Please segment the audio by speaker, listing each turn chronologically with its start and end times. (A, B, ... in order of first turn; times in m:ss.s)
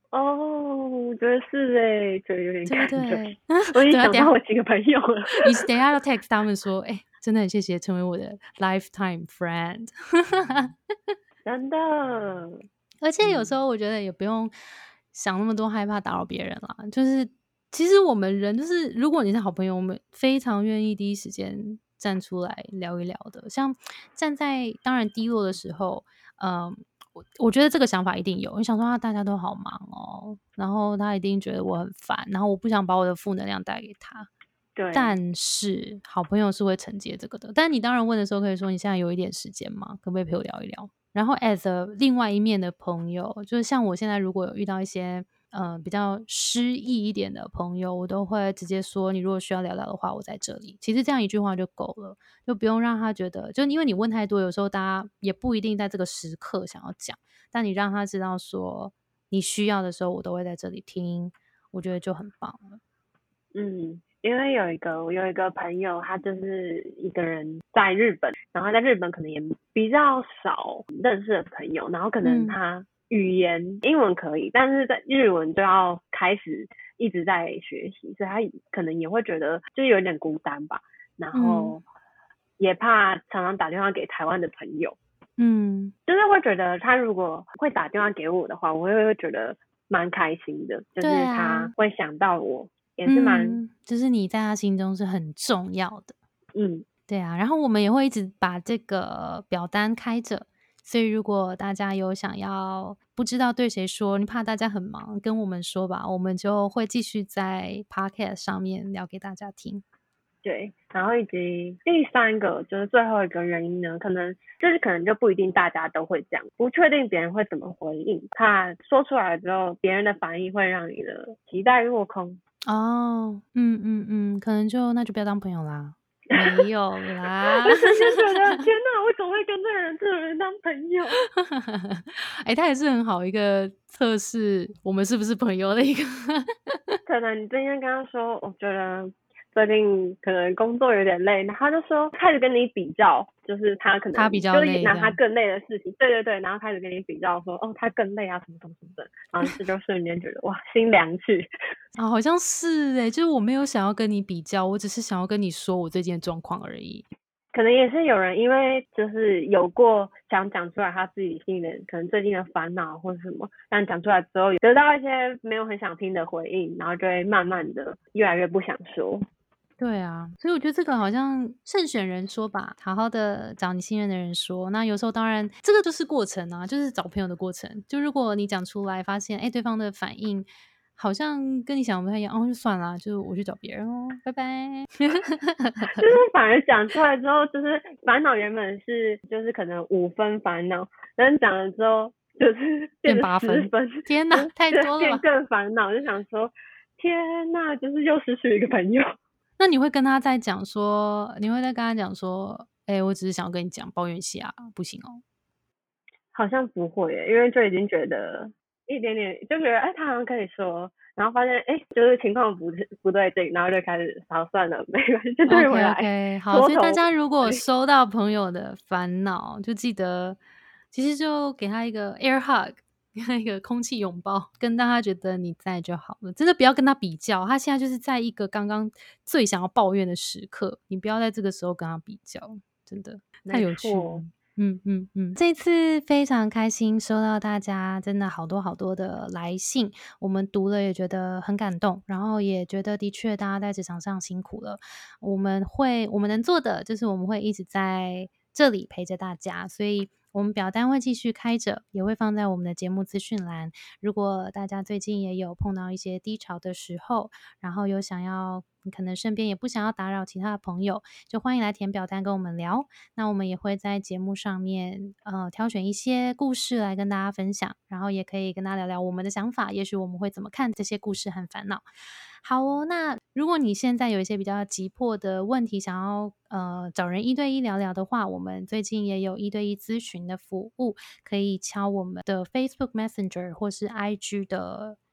0:00.1-0:05.6 A
0:02.7-0:04.3 B
0:05.3-0:10.8 B
0:11.4-0:12.7 A
0:13.0-0:14.5 B
0:13.2-0:13.6 A
0:15.1-0:34.3 B
0:34.8-0:35.2 A
0:34.9-1:02.8 B
1:03.5-1:21.8 A
1:12.2-1:12.6 B
1:21.3-1:21.8 B
1:22.6-1:25.0 A
1:25.4-1:25.9 B
1:26.1-1:33.6 A
1:31.0-1:31.7 B
1:33.1-1:36.2 B
1:36.6-1:36.9 A
1:37.1-1:49.8 B
1:50.4-2:02.4 A
2:02.7-2:08.4 B
2:06.4-2:06.6 A
2:07.6-2:11.2 A
2:11.4-2:17.0 B
2:17.1-2:31.5 A
2:24.1-2:25.2 B
2:32.0-2:37.0 B
2:37.5-2:49.3 A
2:49.8-3:06.2 B
3:05.9-3:19.2 A
3:13.1-3:15.2 B
3:19.6-3:25.2 B
3:26.3-3:37.6 A
3:35.5-3:40.4 B
3:40.9-4:31.8 B
3:53.5-3:54.2 A
4:32.4-4:45.0 B